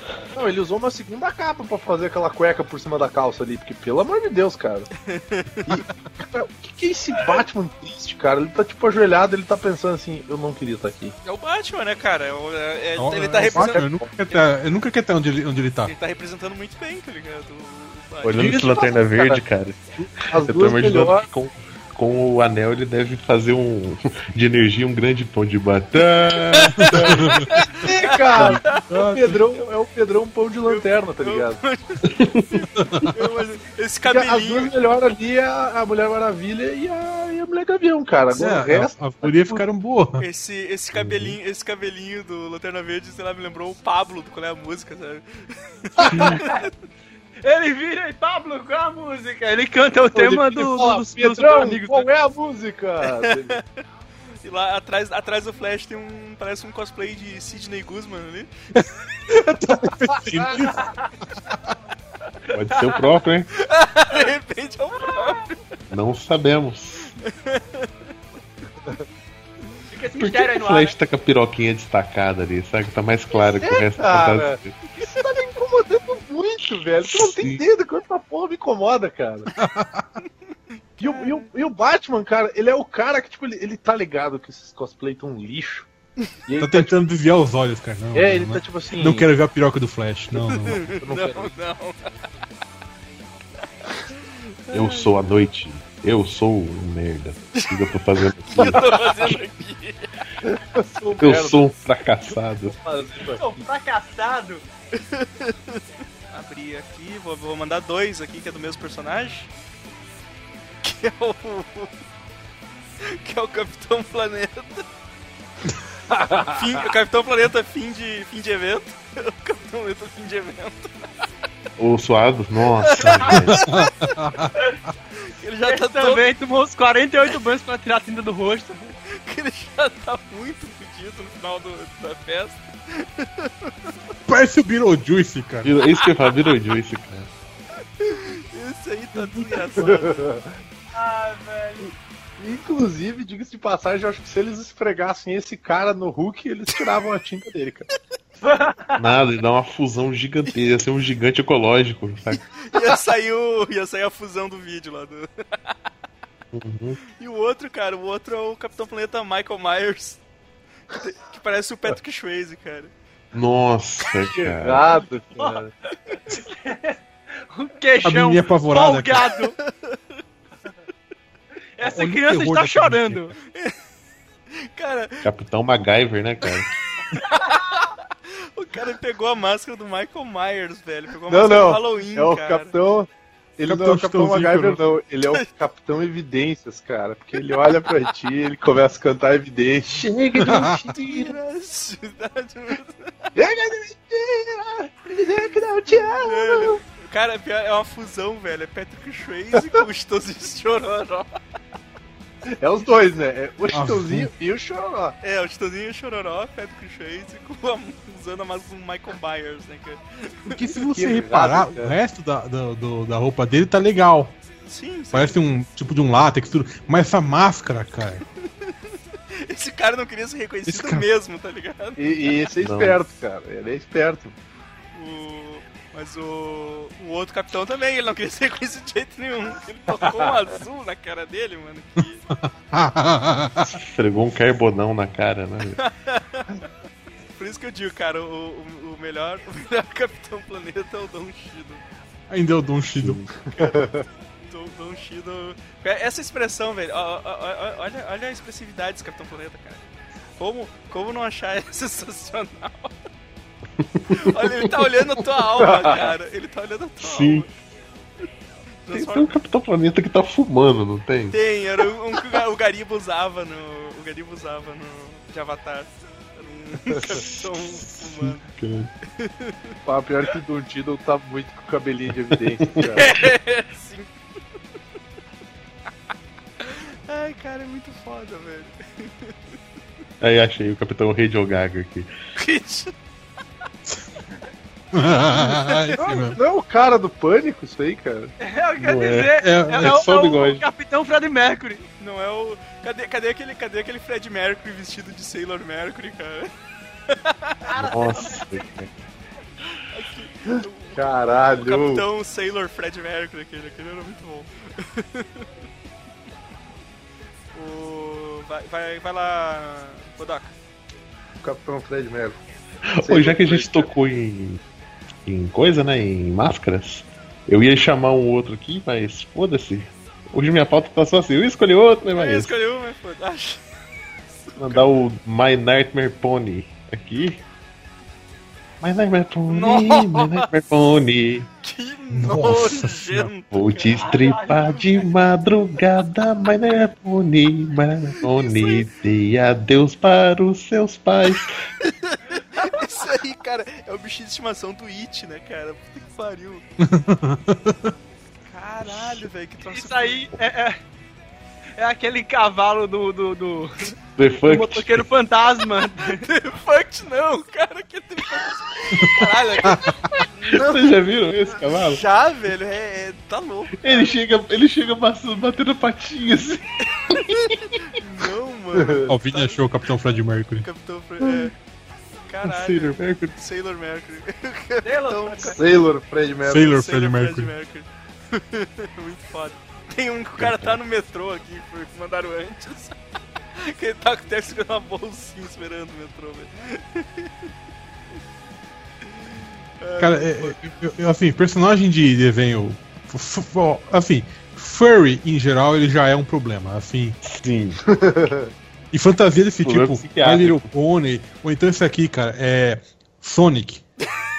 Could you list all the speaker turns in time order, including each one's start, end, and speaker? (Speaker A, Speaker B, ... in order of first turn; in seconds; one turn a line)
Speaker A: 0.3-4.9
Speaker B: 5.1-5.8
Speaker A: 5.7-11.1
Speaker B: 11.2-14.4
Speaker C: 13.0-15.9
Speaker A: 13.5-14.0
Speaker B: 15.8-18.6
Speaker D: 18.2-27.5
Speaker A: 18.4-19.4
Speaker A: 20.0-21.3
Speaker B: 26.5-28.9
Speaker C: 26.8-27.5
Speaker A: 27.8-31.6
Speaker C: 28.4-29.4
Speaker B: 30.7-34.8
Speaker D: 32.1-32.5
Speaker C: 32.8-33.1
Speaker A: 34.1-39.6
Speaker C: 38.3-40.3
Speaker B: 40.2-46.7
Speaker D: 40.9-41.4
Speaker A: 46.0-46.3
Speaker D: 46.1-46.4
Speaker E: 46.2-46.6
Speaker E: 47.4-52.1
Speaker A: 50.1-53.6
Speaker B: 53.0-53.6
Speaker B: 54.4-58.5
Speaker C: 58.8-60.9
Speaker A: 60.1-60.5
Speaker E: 60.6-61.1
Speaker E: 62.5-62.8
Speaker D: 62.5-63.5
Speaker B: 63.6-65.6
Speaker E: 65.1-65.4
Speaker D: 65.9-67.1
Speaker B: 67.2-67.9
Speaker E: 69.9-71.0
Speaker D: 70.2-74.8
Speaker A: 73.6-79.5
Speaker D: 77.0-77.6
Speaker C: 79.6-80.1
Speaker B: 81.0-81.5
Speaker A: 81.0-85.9
Speaker A: 86.5-87.0
Speaker C: 86.6-90.9
Speaker A: 88.2-89.3
Speaker B: 90.5-92.1
Speaker A: 90.8-91.5
Speaker B: 94.7-95.1
Speaker D: 94.7-99.4
Speaker B: 97.5-97.9
Speaker B: 98.4-100.2
Speaker A: 100.4-101.6
Speaker D: 101.2-102.8
Speaker A: 102.7-103.7
Speaker E: 103.3-104.7
Speaker B: 105.0-109.5
Speaker B: 110.8-111.9
Speaker B: 113.0-114.9
Speaker A: 116.1-116.6
Speaker B: 116.5-121.1
Speaker D: 121.8-123.7
Speaker B: 122.9-124.3
Speaker E: 123.0-123.5
Speaker C: 123.5-124.5
Speaker B: 125.3-126.3
Speaker E: 125.7-128.9
Speaker B: 129.1-133.9
Speaker C: 134.3-135.7
Speaker D: 135.6-137.3
Speaker B: 135.9-136.5
Speaker B: 138.0-140.3
Speaker C: 139.4-139.7
Speaker A: 139.8-140.5
Speaker E: 140.9-141.9
Speaker A: 142.4-147.9
Speaker E: 148.4-149.0
Speaker D: 149.0-152.4
Speaker B: 152.3-155.7
Speaker D: 156.5-157.0
Speaker B: 157.2-160.2
Speaker B: 160.9-162.9
Speaker D: 163.3-164.9
Speaker A: 164.3-165.7
Speaker E: 165.4-167.0
Speaker E: 167.5-169.6
Speaker C: 168.0-169.3
Speaker B: 169.6-170.0
Speaker E: 171.8-173.3
Speaker C: 171.8-173.3
Speaker B: 174.6-175.3
Speaker D: 175.2-176.7
Speaker B: 177.1-182.7
Speaker A: 181.3-190.7
Speaker C: 183.7-184.9
Speaker D: 189.9-191.3
Speaker C: 190.4-190.8
Speaker B: 191.0-193.3
Speaker A: 193.4-196.8
Speaker B: 195.9-201.3
Speaker A: 202.6-205.2
Speaker C: 203.7-204.3
Speaker B: 205.2-210.6
Speaker C: 210.5-214.4
Speaker A: 210.8-211.9
Speaker B: 214.7-215.5
Speaker C: 215.1-218.2
Speaker B: 218.4-218.7
Speaker B: 219.4-222.4
Speaker C: 220.7-221.1
Speaker A: 222.0-224.4
Speaker D: 222.6-223.0
Speaker B: 224.9-232.2
Speaker A: 230.0-230.3
Speaker C: 232.3-233.8
Speaker D: 233.6-235.8
Speaker B: 235.8-236.7
Speaker B: 237.4-241.8
Speaker C: 242.3-243.2
Speaker D: 242.9-243.3
Speaker A: 243.5-244.1
Speaker B: 243.6-243.9
Speaker B: 244.5-249.8
Speaker B: 250.4-252.9
Speaker D: 253.8-254.8
Speaker B: 254.1-257.5
Speaker A: 255.6-256.1
Speaker D: 257.0-257.5
Speaker B: 258.9-259.3
Speaker D: 258.9-261.4
Speaker B: 261.3-268.5
Speaker D: 267.0-268.9
Speaker B: 269.2-269.8
Speaker A: 269.9-273.1
Speaker D: 272.3-273.0
Speaker B: 272.9-274.1
Speaker B: 276.6-279.4
Speaker D: 280.2-282.1
Speaker B: 282.4-282.9
Speaker C: 284.9-286.4
Speaker B: 285.4-285.9
Speaker A: 286.0-288.3
Speaker E: 288.4-291.9
Speaker D: 288.8-290.6
Speaker C: 289.4-290.0
Speaker B: 292.0-296.5
Speaker B: 297.1-297.6
Speaker E: 297.6-298.7
Speaker D: 297.8-298.9
Speaker B: 299.9-305.5
Speaker A: 301.0-302.1
Speaker B: 307.5-310.6
Speaker A: 311.4-312.4
Speaker D: 312.9-314.6
Speaker A: 313.0-313.9
Speaker D: 315.3-322.6
Speaker B: 322.1-323.6
Speaker B: 324.4-324.9
Speaker D: 324.6-327.4
Speaker D: 328.8-331.5
Speaker B: 329.5-330.5
Speaker B: 331.6-334.0
Speaker C: 332.1-333.3
Speaker D: 333.5-341.6
Speaker E: 334.0-335.1
Speaker B: 338.4-338.8
Speaker B: 341.8-346.6
Speaker C: 346.8-347.9
Speaker B: 348.5-350.3
Speaker E: 349.7-350.8
Speaker E: 351.8-356.2
Speaker D: 354.2-355.1
Speaker B: 356.0-360.9
Speaker C: 359.6-360.0
Speaker D: 360.5-362.0
Speaker B: 361.5-364.2
Speaker D: 363.8-367.6
Speaker B: 367.3-369.6
Speaker A: 368.8-369.1
Speaker C: 369.1-370.7
Speaker B: 370.6-371.5
Speaker B: 372.3-375.6
Speaker D: 372.4-373.4
Speaker E: 374.8-375.6
Speaker A: 375.5-376.7
Speaker C: 376.4-377.5
Speaker B: 376.6-383.0
Speaker D: 380.4-380.8
Speaker B: 383.6-387.5
Speaker B: 389.1-390.6
Speaker C: 390.0-397.2
Speaker D: 397.2-397.8
Speaker A: 397.9-398.5
Speaker C: 398.9-403.8
Speaker D: 399.6-400.7